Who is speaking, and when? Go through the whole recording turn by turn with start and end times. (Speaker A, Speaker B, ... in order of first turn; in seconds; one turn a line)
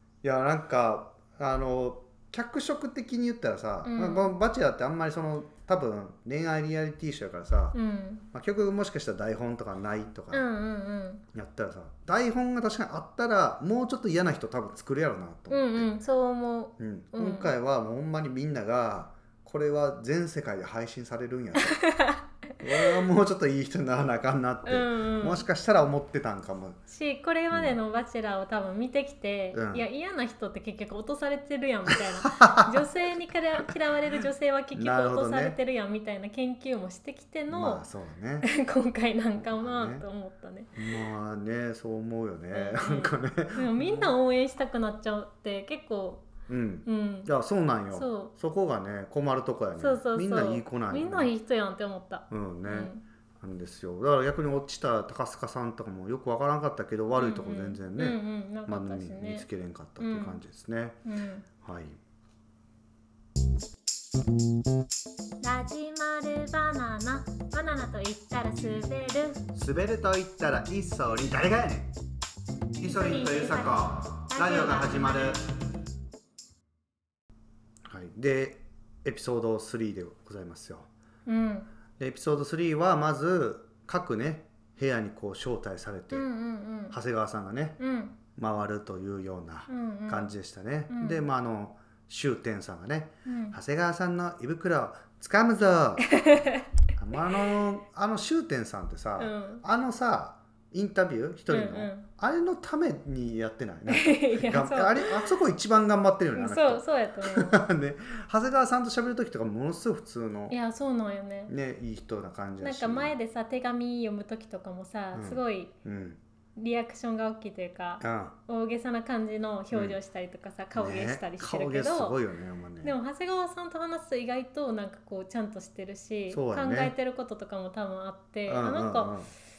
Speaker A: 0.2-7.8
Speaker B: 3.8-4.3
Speaker B: 7.7-8.3
Speaker A: 8.3-10.5
Speaker B: 10.3-11.2
Speaker A: 11.3-15.9
Speaker B: 15.5-17.5
Speaker A: 16.8-21.8
Speaker B: 21.6-23.0
Speaker A: 22.6-26.8
Speaker B: 24.7-25.5
Speaker B: 26.9-37.9
Speaker A: 27.5-27.8
Speaker A: 29.5-29.9
Speaker A: 31.9-32.8
Speaker A: 34.7-35.6
Speaker A: 37.5-38.5
Speaker B: 38.4-40.8
Speaker A: 39.4-40.0
Speaker A: 40.8-44.1
Speaker B: 42.5-46.3
Speaker A: 46.5-51.3
Speaker B: 46.9-47.3
Speaker B: 47.9-48.3
Speaker B: 49.8-53.0
Speaker A: 52.3-61.0
Speaker B: 57.2-59.5
Speaker B: 60.0-60.4
Speaker B: 61.0-61.5
Speaker A: 61.6-62.0
Speaker B: 65.4-69.4
Speaker A: 69.5-71.9
Speaker A: 72.8-75.5
Speaker B: 72.8-75.4
Speaker A: 77.9-80.9
Speaker B: 81.3-81.7
Speaker A: 82.0-86.3
Speaker B: 86.1-87.0
Speaker A: 86.9-87.8
Speaker B: 87.8-88.2
Speaker A: 88.3-96.3
Speaker B: 89.7-90.3
Speaker B: 90.9-91.2
Speaker B: 93.2-93.6
Speaker B: 96.1-96.7
Speaker A: 97.0-110.6
Speaker B: 99.2-99.6
Speaker B: 101.5-102.1
Speaker B: 103.9-105.3
Speaker B: 106.3-107.6
Speaker B: 110.5-111.5
Speaker A: 111.5-113.1
Speaker B: 112.6-115.7
Speaker A: 115.1-116.2
Speaker B: 116.5-122.2
Speaker A: 118.0-118.3
Speaker A: 119.7-120.0
Speaker A: 120.8-123.0
Speaker B: 122.8-129.2
Speaker A: 126.3-126.9
Speaker A: 128.5-129.3